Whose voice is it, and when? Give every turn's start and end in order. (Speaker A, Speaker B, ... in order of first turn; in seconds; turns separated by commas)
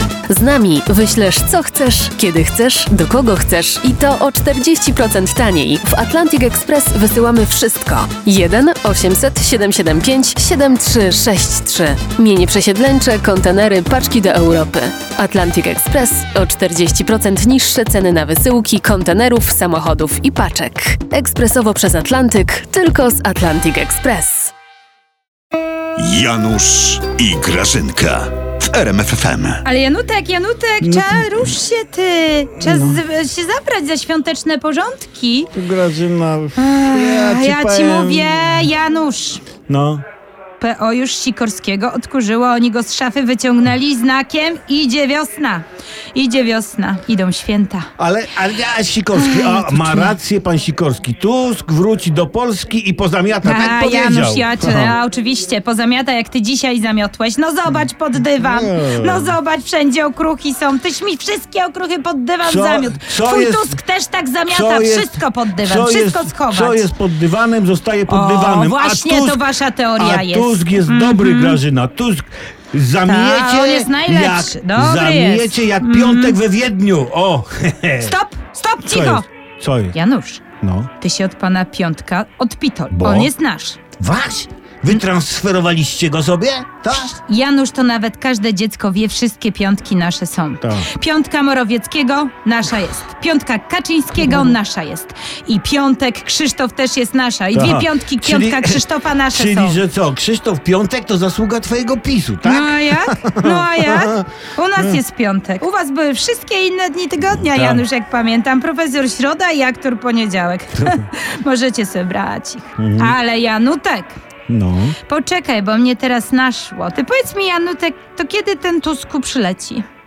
Speaker A: 0.3-24.5, Speaker B: 26.0-29.6, Speaker C: 29.6-35.5, Speaker D: 30.8-31.6, Speaker D: 32.6-33.0, Speaker D: 35.5-38.7, Speaker C: 36.5-39.4, Speaker D: 39.7-40.0, Speaker C: 40.6-47.9, Speaker D: 48.0-55.0, Speaker C: 49.1-50.1, Speaker C: 53.4-66.9, Speaker D: 58.4-59.4, Speaker D: 62.4-63.8, Speaker D: 64.5-78.2, Speaker C: 68.1-71.6, Speaker C: 73.0-76.4, Speaker C: 78.0-79.2, Speaker D: 78.8-80.0, Speaker C: 79.9-80.4, Speaker D: 80.6-80.9, Speaker C: 81.0-83.8, Speaker D: 82.9-83.3, Speaker D: 84.0-87.2, Speaker C: 86.9-99.8, Speaker D: 90.6-90.9, Speaker D: 94.2-94.5, Speaker D: 97.5-105.0, Speaker C: 102.4-114.2, Speaker D: 107.2-107.9, Speaker D: 112.8-113.1, Speaker D: 114.5-115.0, Speaker C: 115.1-119.8